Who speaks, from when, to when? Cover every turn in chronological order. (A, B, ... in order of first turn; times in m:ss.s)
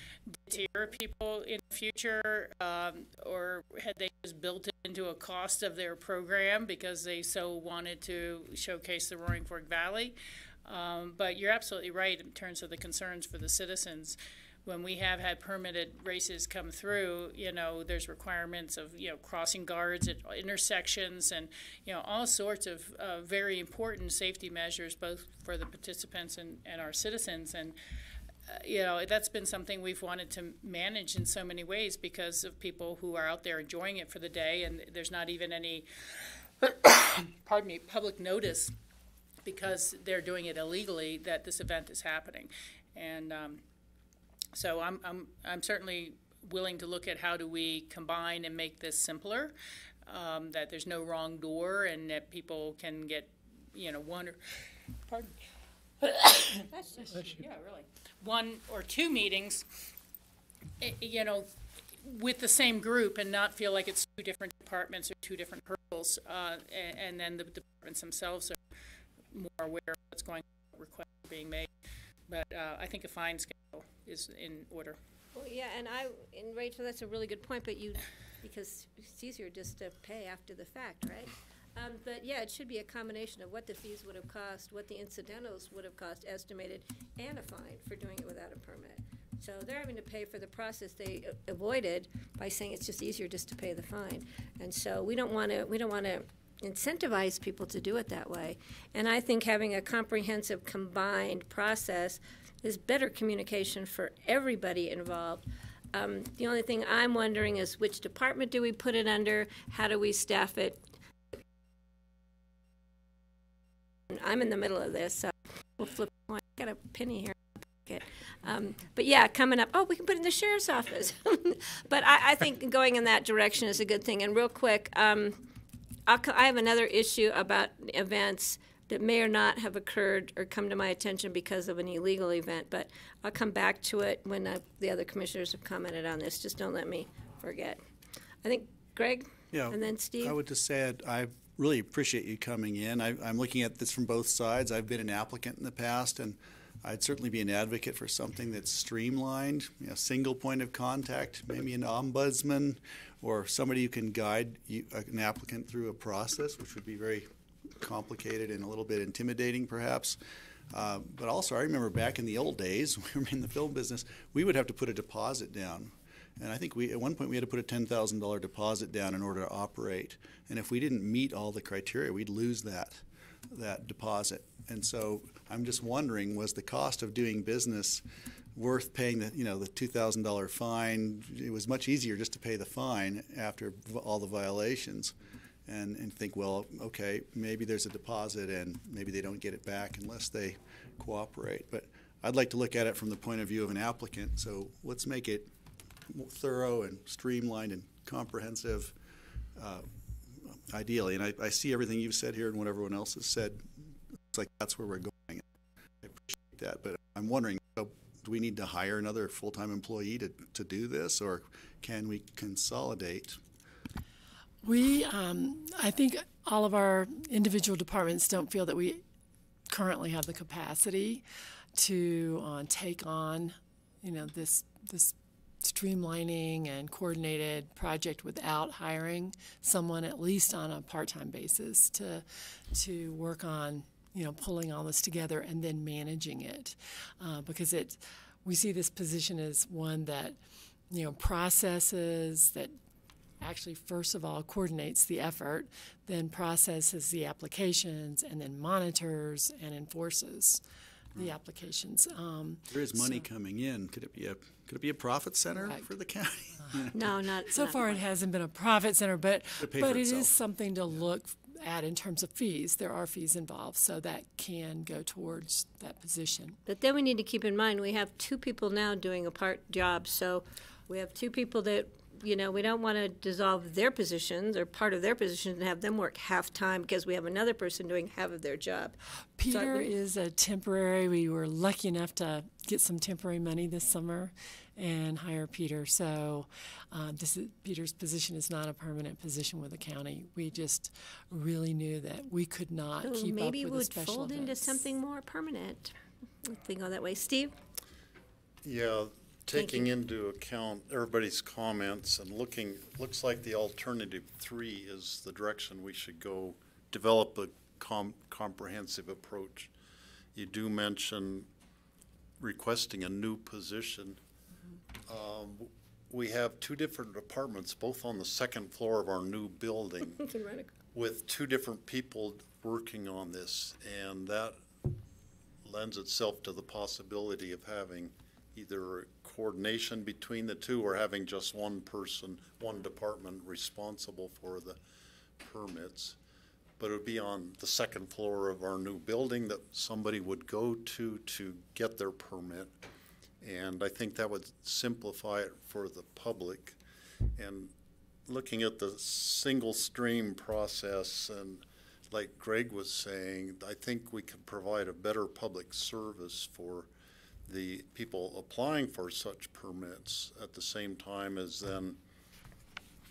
0:00.3-0:27.8 A
0:28.5-0:38.7 A
0:39.4-0:43.6 A
0:44.5-0:49.5 A
0:50.0-0:55.4 A
0:56.0-0:59.6 A
0:56.7-0:57.4 B
1:00.8-1:01.5 A
1:02.0-1:08.6 A
1:09.3-1:11.7 A
1:12.3-1:15.0 A
1:15.3-1:50.8 B
1:54.1-2:05.4 B
2:06.1-2:17.8 B
2:18.4-2:20.4 B
2:19.5-2:40.2 C
2:40.7-2:58.0 C
2:58.5-3:05.1 C
3:05.6-3:15.5 C
3:16.1-3:18.9 C
3:19.6-3:19.8 C
3:20.4-3:23.7 C
3:24.3-3:25.4 C
3:26.0-3:33.4 C
3:34.6-3:39.0 D
3:39.7-3:41.2 D
3:41.7-4:00.4 D
4:00.9-4:02.7 D
4:03.4-4:10.6 D
4:11.1-4:13.2 D
4:12.7-4:17.1 C
4:15.5-4:15.9 D
4:16.9-4:18.0 B
4:17.5-4:26.6 D
4:19.6-4:20.3 C
4:26.6-4:39.0 B
4:39.4-4:54.9 D
4:39.5-4:39.9 B
4:53.0-4:57.6 B
4:58.6-5:09.7 E
4:59.5-4:59.9 B
5:10.3-5:11.5 E
5:12.4-5:14.2 E
5:15.1-5:20.2 E
5:20.1-5:20.7 B
5:20.9-5:24.6 E
5:25.6-5:34.8 E
5:35.4-5:36.2 E
5:36.8-5:42.7 E
5:43.4-5:46.8 E
5:47.4-5:47.7 E
5:48.2-5:56.9 E
5:57.5-6:02.0 E